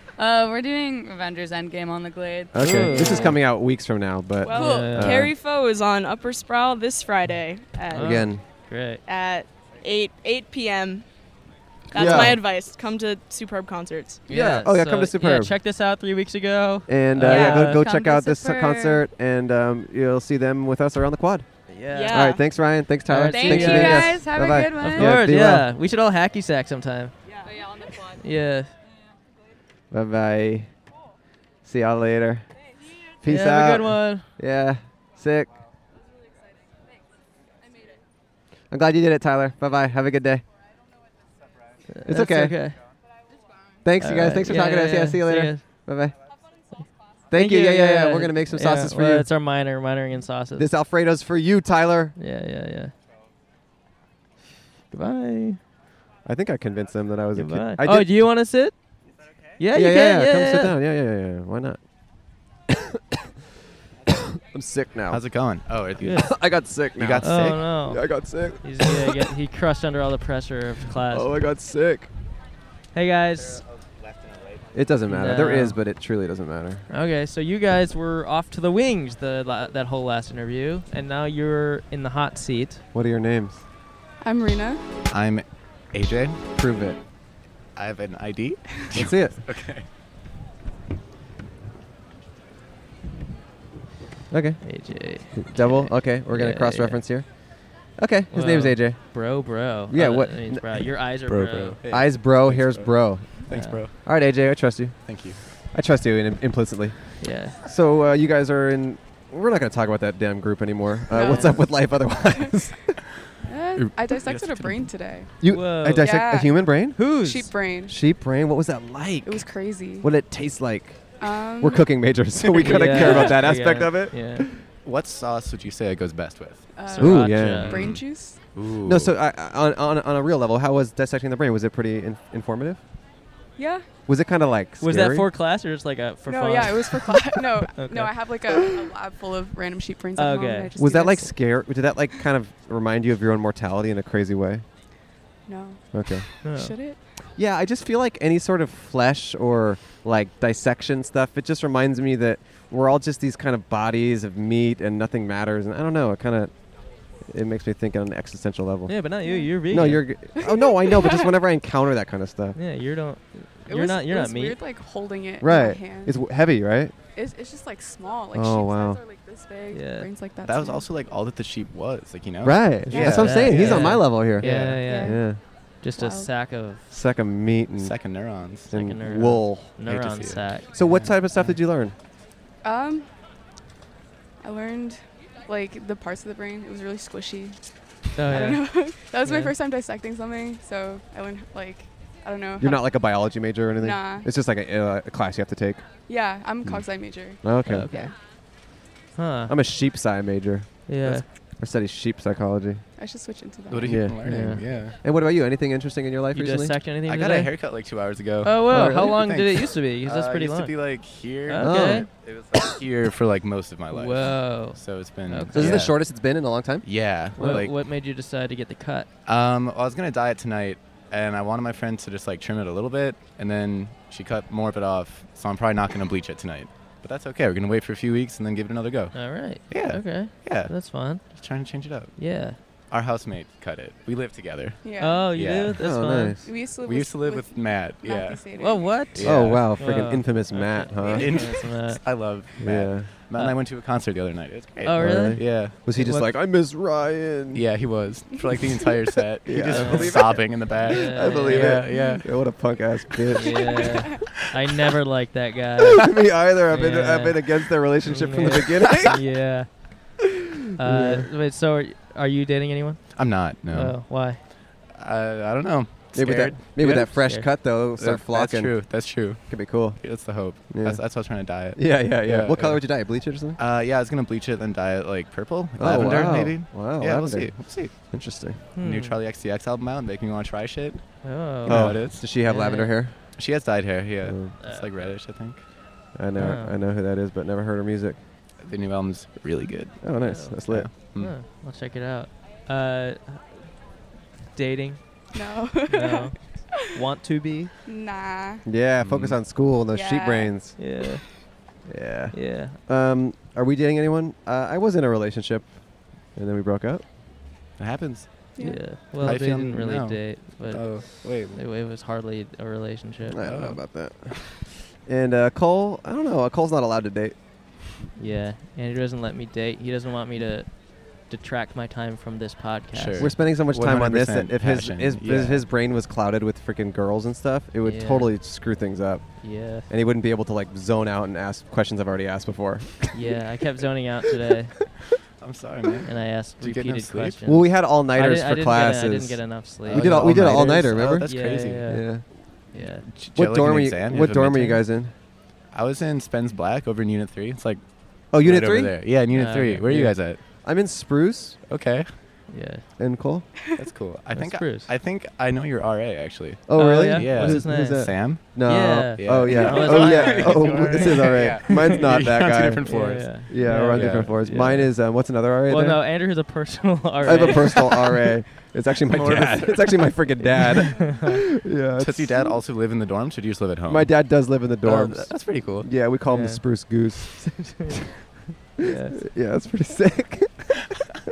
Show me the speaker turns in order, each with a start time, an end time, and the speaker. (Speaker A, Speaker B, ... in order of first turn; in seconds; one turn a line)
Speaker A: 0.2-3.2
Speaker B: 2.5-5.3
Speaker C: 2.6-3.4
Speaker D: 4.4-8.3
Speaker C: 4.5-5.3
Speaker C: 7.9-9.0
Speaker B: 8.0-8.4
Speaker D: 9.1-11.1
Speaker D: 11.9-14.2
Speaker B: 11.9-12.4
Speaker C: 14.3-17.9
Speaker B: 14.3-15.5
Speaker B: 16.9-21.5
Speaker A: 17.2-19.0
Speaker C: 21.7-22.4
Speaker D: 21.9-22.4
Speaker B: 22.1-25.7
Speaker C: 23.1-27.1
Speaker A: 23.3-25.2
Speaker D: 27.3-27.6
Speaker C: 28.1-28.7
Speaker B: 29.9-30.7
Speaker B: 31.6-32.5
Speaker B: 33.2-35.5
Speaker C: 33.2-34.3
Speaker B: 38.7-40.4
Speaker C: 41.9-42.8
Speaker B: 42.1-42.6
Speaker B: 43.8-46.1
Speaker C: 44.0-45.6
Speaker B: 47.3-49.3
Speaker C: 47.3-50.7
Speaker B: 50.6-52.1
Speaker C: 52.2-52.9
Speaker C: 54.9-55.6
Speaker B: 56.2-58.2
Speaker C: 57.4-58.8
Speaker C: 59.6-60.8
Speaker B: 59.7-61.8
Speaker B: 62.7-63.0
Speaker B: 64.4-65.2
Speaker E: 65.1-66.3
Speaker C: 66.0-66.3
Speaker B: 66.1-69.2
Speaker E: 67.0-67.7
Speaker C: 67.2-71.3
Speaker B: 71.1-72.1
Speaker C: 72.9-73.6
Speaker B: 74.7-76.8
Speaker C: 75.1-75.8
Speaker C: 76.9-82.8
Speaker B: 82.9-83.6
Speaker F: 84.2-84.8
Speaker E: 85.1-86.4
Speaker B: 86.6-87.0
Speaker E: 87.8-89.9
Speaker B: 88.9-89.4
Speaker B: 94.3-94.7
Speaker C: 94.6-97.0
Speaker B: 95.4-99.2
Speaker C: 98.3-101.8
Speaker B: 99.9-100.8
Speaker E: 101.2-104.0
Speaker B: 101.9-103.3
Speaker C: 103.5-103.8
Speaker B: 104.0-105.2
Speaker E: 105.1-105.4
Speaker B: 105.7-113.0
Speaker C: 107.2-107.6
Speaker F: 111.1-111.7
Speaker F: 113.4-118.0
Speaker E: 113.8-114.9
Speaker B: 115.4-117.1
Speaker C: 115.5-116.4
Speaker C: 117.0-117.6
Speaker B: 117.9-119.5
Speaker F: 119.2-120.1
Speaker B: 120.0-124.6
Speaker F: 121.2-121.9
Speaker C: 122.6-124.5
Speaker F: 122.8-123.3
Speaker E: 124.8-126.7
Speaker F: 126.7-128.4
Speaker C: 126.9-128.0
Speaker B: 127.0-127.8
Speaker E: 127.5-129.2
Speaker B: 128.8-132.8
Speaker F: 133.6-133.9
Speaker B: 134.1-135.3
Speaker C: 134.8-138.6
Speaker F: 136.2-141.4
Speaker C: 140.2-140.7
Speaker B: 140.8-144.7
Speaker F: 145.5-147.0
Speaker B: 145.9-146.3
Speaker C: 146.4-146.8
Speaker B: 147.4-156.5
Speaker B: 157.3-159.0
Speaker C: 158.9-160.1
Speaker F: 159.2-159.7
Speaker B: 159.7-162.6
Speaker F: 160.3-161.3
Speaker C: 162.6-164.6
Speaker F: 163.7-166.2
Speaker B: 165.4-166.9
Speaker F: 167.2-170.9
Speaker B: 168.3-169.0
Speaker C: 169.7-170.1
Speaker E: 170.4-174.8
Speaker B: 172.4-175.4
Speaker F: 172.9-173.6
Speaker C: 172.9-176.9
Speaker F: 174.4-175.4
Speaker F: 175.9-176.3
Speaker B: 176.9-178.0
Speaker E: 177.8-178.7
Speaker B: 178.7-179.8
Speaker C: 178.7-181.6
Speaker E: 179.8-181.1
Speaker B: 180.7-181.9
Speaker F: 182.6-183.1
Speaker F: 184.4-187.7
Speaker C: 188.2-189.6
Speaker F: 188.2-192.9
Speaker B: 192.6-195.8
Speaker F: 193.8-194.3
Speaker F: 196.1-198.1
Speaker B: 197.4-197.9
Speaker C: 197.7-198.1
Speaker C: 199.2-199.6
Speaker B: 199.5-202.8
Speaker C: 200.9-201.2
Speaker F: 203.0-204.1
Speaker E: 203.7-205.0
Speaker B: 203.8-206.8
Speaker C: 204.2-204.7
Speaker C: 206.3-207.5
Speaker E: 207.0-216.0
Speaker C: 208.4-210.8
Speaker B: 208.7-209.2
Speaker C: 211.5-212.1
Speaker B: 211.6-212.1
Speaker C: 213.9-215.9
Speaker B: 215.5-216.9
Speaker E: 216.8-217.8
Speaker C: 217.4-219.1
Speaker E: 219.3-232.2
Speaker C: 229.1-231.2
Speaker C: 232.2-232.6
Speaker E: 232.9-235.8
Speaker F: 234.8-235.3
Speaker C: 235.0-236.4
Speaker B: 235.8-236.4
Speaker F: 236.4-239.1
Speaker E: 236.7-238.5
Speaker C: 238.5-242.1
Speaker E: 239.1-239.8
Speaker B: 239.2-241.4
Speaker F: 241.0-241.4
Speaker E: 241.0-245.8
Speaker B: 242.6-243.1
Speaker C: 244.8-246.3
Speaker B: 244.9-247.6
Speaker E: 247.5-252.2
Speaker F: 248.3-248.9
Speaker B: 249.4-253.8
Speaker C: 249.7-250.3
Speaker C: 250.9-251.9
Speaker F: 251.9-252.2
Speaker C: 253.3-256.1
Speaker F: 253.6-254.2
Speaker B: 255.9-259.2
Speaker C: 256.7-260.2
Speaker E: 258.8-259.1
Speaker C: 260.8-264.4
Speaker B: 260.8-261.3
Speaker E: 263.1-264.3
Speaker E: 264.8-267.2
Speaker B: 266.1-270.0
Speaker C: 267.1-267.5
Speaker E: 267.9-273.0
Speaker B: 270.7-271.0
Speaker B: 271.8-273.6
Speaker E: 273.6-278.0
Speaker B: 275.8-278.6
Speaker C: 278.8-279.2
Speaker E: 278.8-282.2
Speaker C: 281.2-283.0
Speaker B: 281.7-283.2
Speaker E: 283.4-285.6
Speaker B: 284.2-284.5
Speaker C: 284.6-285.1
Speaker B: 286.1-288.2
Speaker C: 286.4-286.8
Speaker E: 288.6-290.0
Speaker B: 290.0-290.9
Speaker C: 290.2-293.5
Speaker E: 290.7-291.4
Speaker C: 294.5-295.0
Speaker F: 295.3-296.3
Speaker C: 295.9-297.7
Speaker F: 297.9-298.6
Speaker B: 298.7-300.8
Speaker E: 299.0-299.4
Speaker F: 299.9-300.5
Speaker C: 300.8-301.2
Speaker B: 301.9-305.7
Speaker C: 302.3-302.8
Speaker B: 306.3-307.0
Speaker E: 307.8-311.6
Speaker F: 308.6-309.0
Speaker C: 308.6-313.6
Speaker B: 313.3-317.4
Speaker E: 313.4-313.8
Speaker C: 318.2-323.4
Speaker E: 322.9-325.6
Speaker B: 323.2-333.3
Speaker C: 327.8-328.3
Speaker C: 329.4-329.9
Speaker C: 333.1-334.8
Speaker E: 335.4-337.4
Speaker C: 336.1-342.1
Speaker B: 337.5-341.3
Speaker E: 339.9-342.0
Speaker B: 341.9-342.2
Speaker C: 342.7-343.1
Speaker E: 342.8-344.8
Speaker B: 343.4-345.1
Speaker E: 345.7-347.8
Speaker B: 348.3-348.9
Speaker E: 348.3-350.4
Speaker C: 349.3-350.1
Speaker B: 349.9-351.6
Speaker E: 351.7-352.2
Speaker C: 352.5-352.9
Speaker B: 353.0-353.5
Speaker E: 353.8-358.6
Speaker C: 354.3-354.9
Speaker B: 356.7-366.0
Speaker C: 356.8-362.0
Speaker E: 359.2-364.4
Speaker C: 362.9-365.0
Speaker C: 365.7-368.3
Speaker B: 367.2-372.6
Speaker E: 369.1-370.1
Speaker C: 370.8-371.4
Speaker E: 372.0-374.1
Speaker B: 373.9-377.9
Speaker E: 374.8-375.9
Speaker C: 376.3-376.6
Speaker C: 377.6-378.0
Speaker C: 378.8-379.2
Speaker B: 378.9-380.8